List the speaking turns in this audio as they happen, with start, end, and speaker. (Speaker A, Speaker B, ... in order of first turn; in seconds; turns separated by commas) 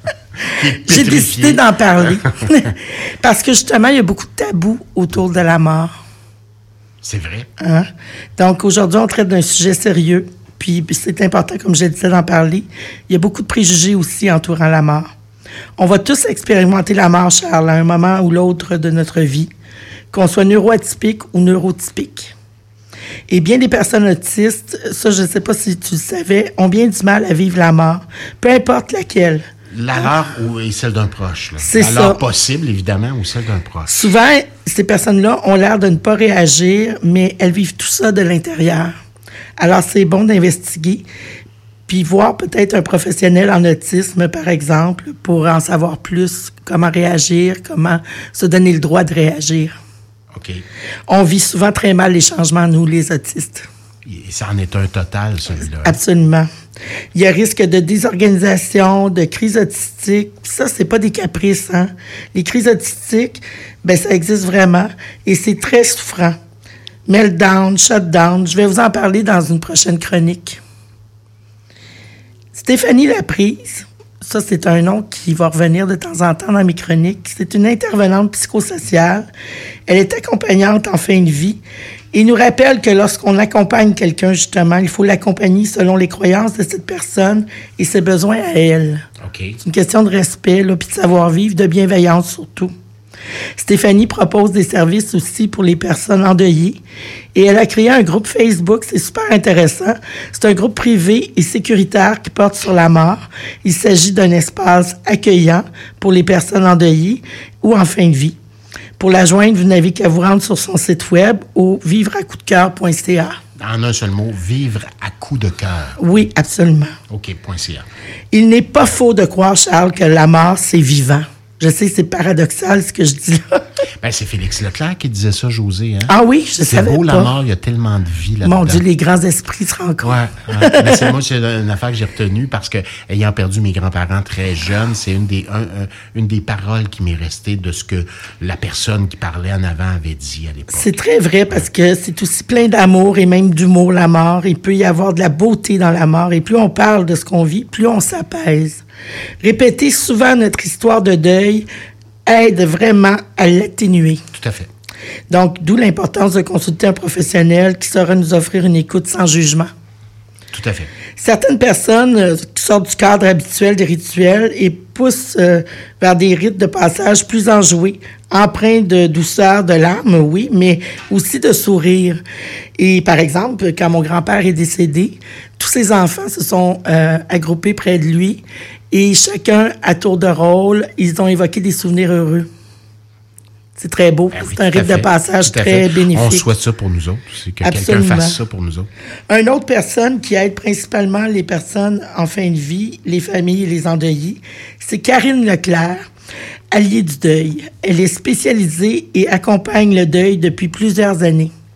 Speaker A: 0.5-2.5, Speaker B: 0.8-5.9, Speaker A: 7.0-7.5, Speaker B: 7.6-15.1, Speaker B: 15.8-19.5, Speaker B: 20.1-22.3, Speaker B: 23.3-29.4, Speaker A: 29.7-34.1, Speaker B: 31.6-32.2, Speaker B: 33.9-38.9, Speaker B: 39.6-41.1, Speaker B: 41.9-49.8, Speaker A: 50.3-50.6, Speaker B: 51.1-53.7, Speaker A: 54.0-56.0, Speaker B: 55.6-56.5, Speaker B: 57.1-66.4, Speaker B: 67.1-70.6, Speaker B: 72.5-79.3, Speaker B: 79.9-81.6, Speaker B: 82.1-89.0, Speaker A: 89.2-89.6, Speaker B: 89.6-92.7, Speaker B: 93.6-96.8, Speaker B: 97.3-108.4, Speaker B: 109.0-113.4, Speaker A: 113.6-116.0, Speaker B: 116.0-117.0, Speaker A: 117.1-117.9, Speaker B: 118.3-123.6, Speaker A: 124.0-126.1, Speaker B: 126.1-127.3, Speaker A: 126.7-128.8, Speaker B: 128.4-131.1, Speaker A: 130.0-141.0, Speaker B: 140.7-148.8, Speaker B: 149.4-151.7, Speaker B: 152.3-154.2, Speaker A: 154.3-154.7, Speaker B: 155.3-159.7, Speaker A: 160.5-160.9, Speaker B: 161.2-172.2, Speaker B: 172.8-182.5, Speaker B: 183.8-186.4, Speaker A: 184.3-188.9, Speaker B: 187.6-188.4, Speaker B: 189.3-196.0, Speaker B: 196.7-201.5